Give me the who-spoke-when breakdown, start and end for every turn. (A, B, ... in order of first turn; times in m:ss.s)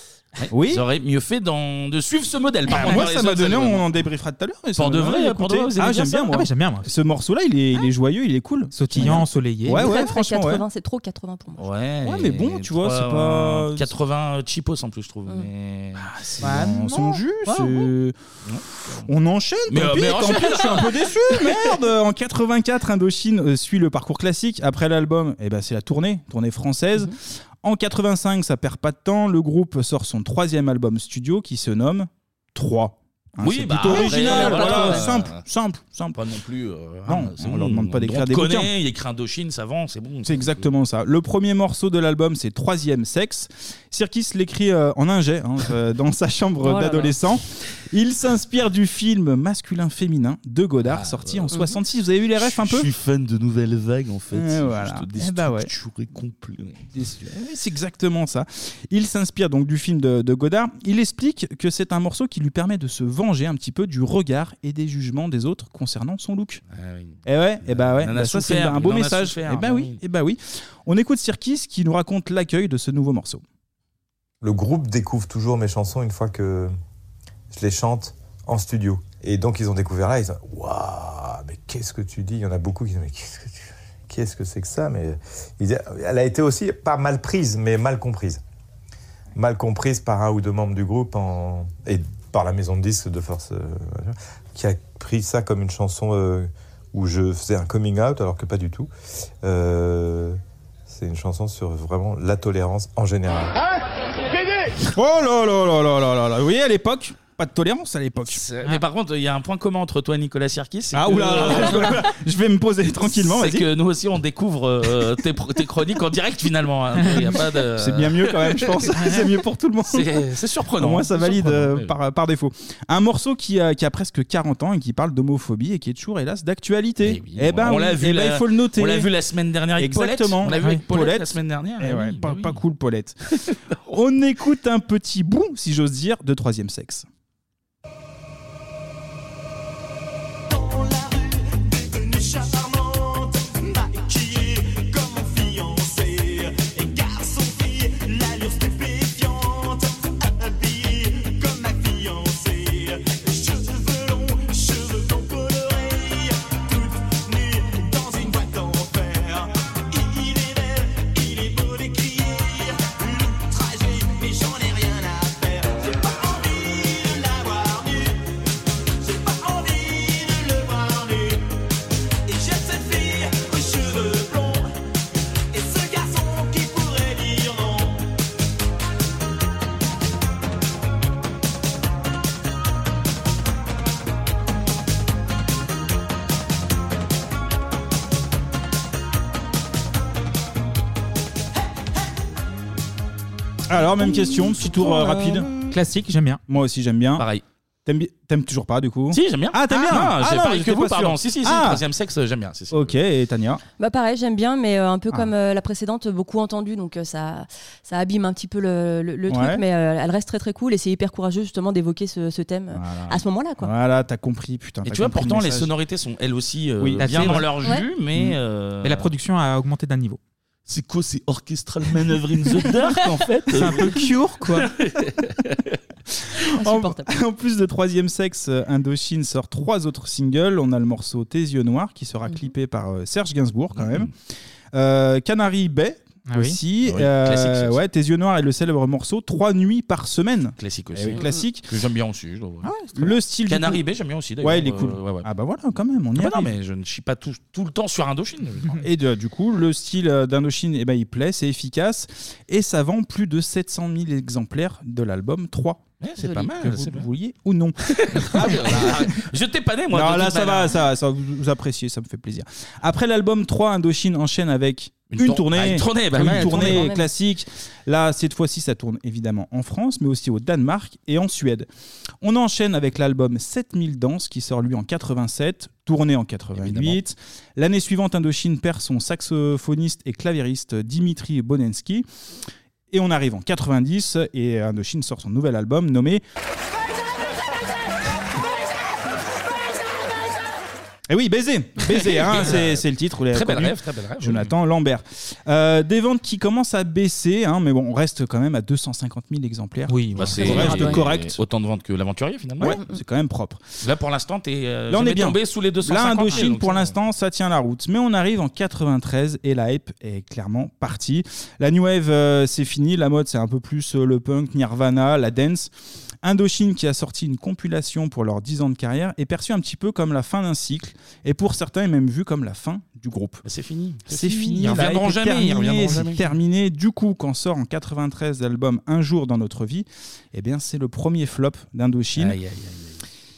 0:00.4-0:03.9 A
0:00.5-0:00.8 B
0:02.7-0:10.6 B
0:04.8-0:06.4 A
0:06.3-0:06.9 C
0:08.7-0:09.9 C
0:09.7-0:11.6 D
0:11.6-0:16.1 A
0:12.0-0:13.9 B
0:16.0-0:18.2 B
0:16.4-0:17.8 C
0:18.5-0:19.1 A
0:19.0-0:36.2 B
0:19.7-0:21.6 A
0:33.4-0:35.4 A
0:33.9-0:35.0 D
0:36.2-0:40.6 A
0:37.1-0:38.7 B
0:40.2-0:52.9 B
0:46.6-0:47.1 D
0:50.8-0:51.6 A
0:52.4-0:56.9 A
0:54.3-0:55.7 B
0:56.9-1:06.6 B
1:06.7-1:10.0 A
1:07.3-1:13.4 B
1:14.4-1:16.7 E
1:17.5-1:28.4 E
1:29.4-1:38.9 E
1:39.4-1:43.6 E
1:44.9-1:48.4 B
1:48.3-1:52.1 A
1:50.9-1:53.7 B
1:53.0-1:58.9 A
1:57.8-2:00.2 B
1:59.8-2:01.9 A
2:00.8-2:09.1 B
2:07.0-2:12.6 A
2:09.8-2:13.2 B
2:10.6-2:10.8 C
2:13.9-2:17.1 B
2:20.5-2:48.1 F
2:49.0-2:51.4 F
2:52.3-2:54.7 F
2:55.5-2:58.0 F
3:13.7-3:15.5 B
3:15.0-3:16.4 C
3:16.5-3:17.3 B
3:17.2-3:17.4 A
3:17.8-3:21.8 B
3:19.1-3:23.0 A
3:22.7-3:23.6 B
3:23.8-3:33.7 D
3:29.3-3:29.6 B
3:32.7-3:35.7 B
3:34.9-3:39.1 A
3:36.8-3:37.4 B
3:37.0-3:37.5 C
3:38.8-3:40.2 C
3:40.7-3:45.8 A
3:43.5-3:44.7 C
3:46.3-3:54.1 B
3:46.6-3:47.1 D
3:53.8-3:54.1 A
3:54.7-4:01.7 B
3:56.3-3:56.6 C
3:56.8-3:57.8 A
4:00.6-4:02.7 A
4:03.0-4:03.8 B
4:03.5-4:05.3 A
4:04.4-4:06.5 B
4:06.2-4:08.8 A
4:08.8-4:19.2 B
4:16.0-4:17.1 A
4:17.8-4:20.8 A
4:19.9-4:31.7 B
4:25.1-4:26.9 A
4:26.3-4:27.1 D
4:32.2-4:42.1 B
4:36.6-4:37.0 A
4:42.9-4:46.2 B
4:51.1-5:01.4 B
4:51.9-4:54.5 A
4:59.9-5:01.0 C
5:00.2-5:02.8 A
5:02.6-5:03.6 B
5:03.8-5:07.0 A
5:04.9-5:15.7 B
5:16.2-5:23.4 B
5:23.4-5:26.3 A
5:24.1-5:32.4 B
5:32.2-5:33.0 A